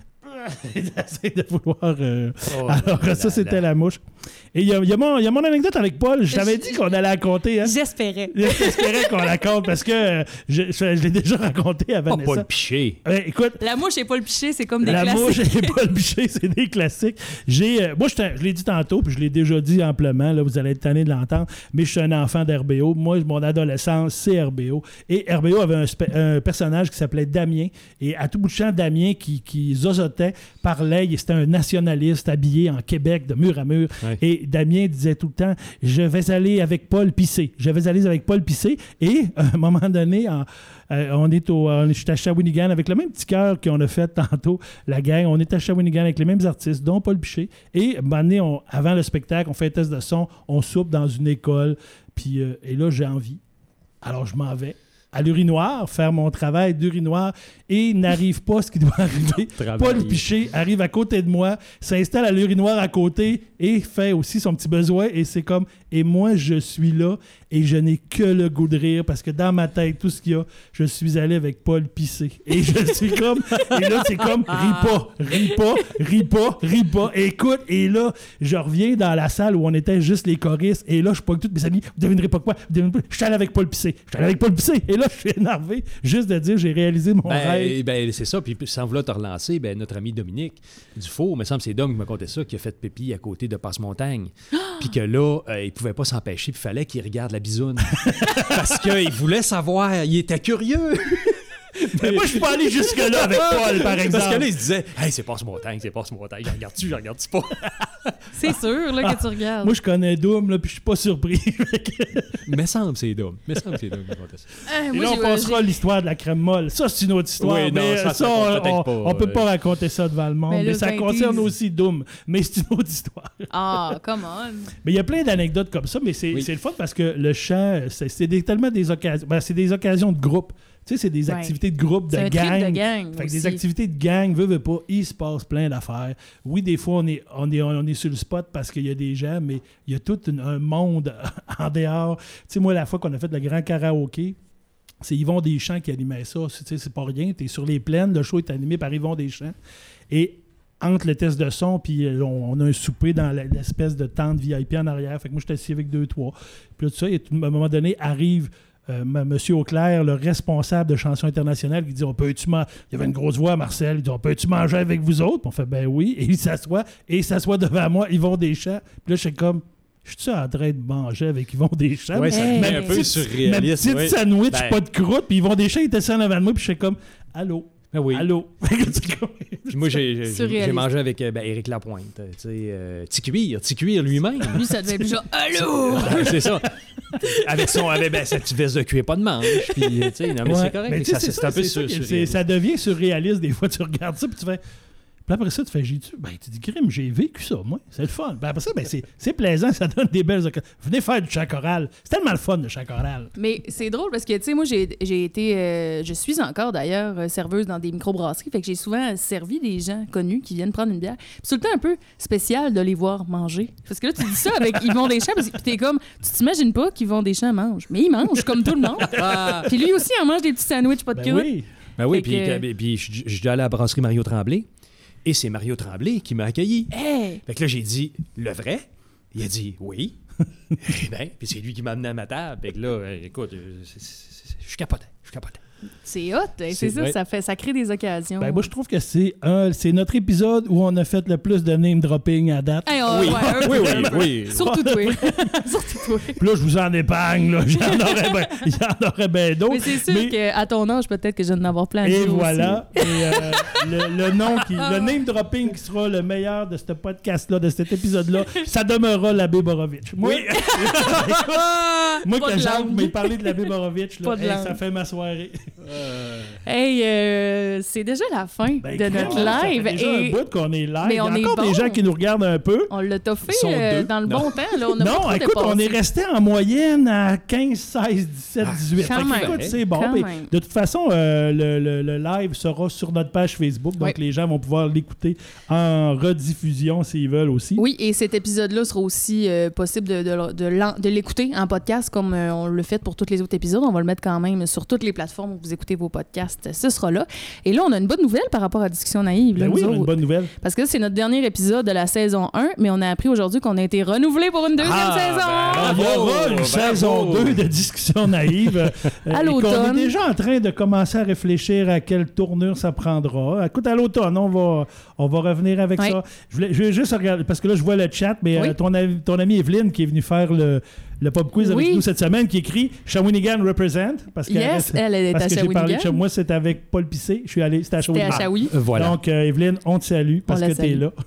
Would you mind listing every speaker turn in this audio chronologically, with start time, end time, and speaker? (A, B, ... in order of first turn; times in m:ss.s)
0:00.2-0:04.0 A
0:02.5-0:03.6 B
0:04.5-0:07.7 A
0:06.3-0:06.8 C
0:07.6-0:09.2 C
0:08.3-0:12.5 A
0:12.1-0:13.0 B
0:13.0-0:13.6 A
0:13.6-0:15.7 C
0:14.8-0:53.4 A
0:14.8-0:15.1 B
0:54.0-1:27.8 A
0:59.4-1:00.2 B
1:27.2-1:48.3 B
1:34.6-1:34.8 C
1:38.0-1:38.7 A
1:41.9-1:44.5 A
1:48.3-1:49.7 C
1:49.0-1:52.5 A
1:52.5-1:54.6 B
1:54.6-1:55.6 C
1:54.9-2:04.0 A
1:57.4-1:59.5 B
2:00.5-2:01.5 C
2:03.5-2:04.7 C
2:04.8-2:24.4 A
2:11.2-2:11.5 C
2:12.1-2:13.6 C
2:25.0-2:29.5 A
2:30.1-3:00.0 A
2:52.1-2:54.8 B
2:52.3-2:53.1 C
2:57.9-2:58.3 B
2:59.7-3:04.7 B
3:00.3-3:00.9 C
3:04.4-3:06.5 C
3:05.7-3:12.4 B
3:06.0-3:08.0 A
3:10.4-3:14.6 A
3:15.2-3:23.3 A
3:23.4-3:41.5 C
3:39.1-3:39.7 B
3:41.1-3:41.7 A
3:42.0-3:44.6 B
3:42.1-3:42.6 C
3:45.2-3:50.2 B
3:46.9-3:47.4 C
3:50.8-3:55.6 B
3:56.0-3:58.7 C
3:56.7-3:57.1 B
3:58.4-4:05.7 A
4:02.8-4:06.4 C
4:03.1-4:04.6 B
4:06.4-4:10.3 A
4:07.8-4:08.5 C
4:09.7-4:15.1 C
4:12.0-4:21.6 A
4:20.2-4:23.7 C
4:21.0-4:22.1 B
4:22.2-4:25.6 A
4:24.2-4:24.8 C
4:25.8-4:26.6 B
4:26.6-4:30.4 C
4:28.8-4:32.9 A
4:29.1-4:29.7 B
4:31.0-4:32.0 C
4:32.9-4:36.0 C
4:33.5-4:34.5 B
4:35.0-4:47.8 A
4:38.6-4:39.8 B
4:39.0-4:40.5 C
4:47.8-5:06.0 C
4:59.6-5:00.5 A
5:04.8-5:07.6 B
5:05.4-5:31.1 A
5:08.6-5:09.1 B
5:09.3-5:10.1 C
5:21.5-5:22.0 C
5:24.5-5:26.2 C
5:28.1-5:28.7 C
5:28.3-5:29.2 B
5:30.5-5:31.0 C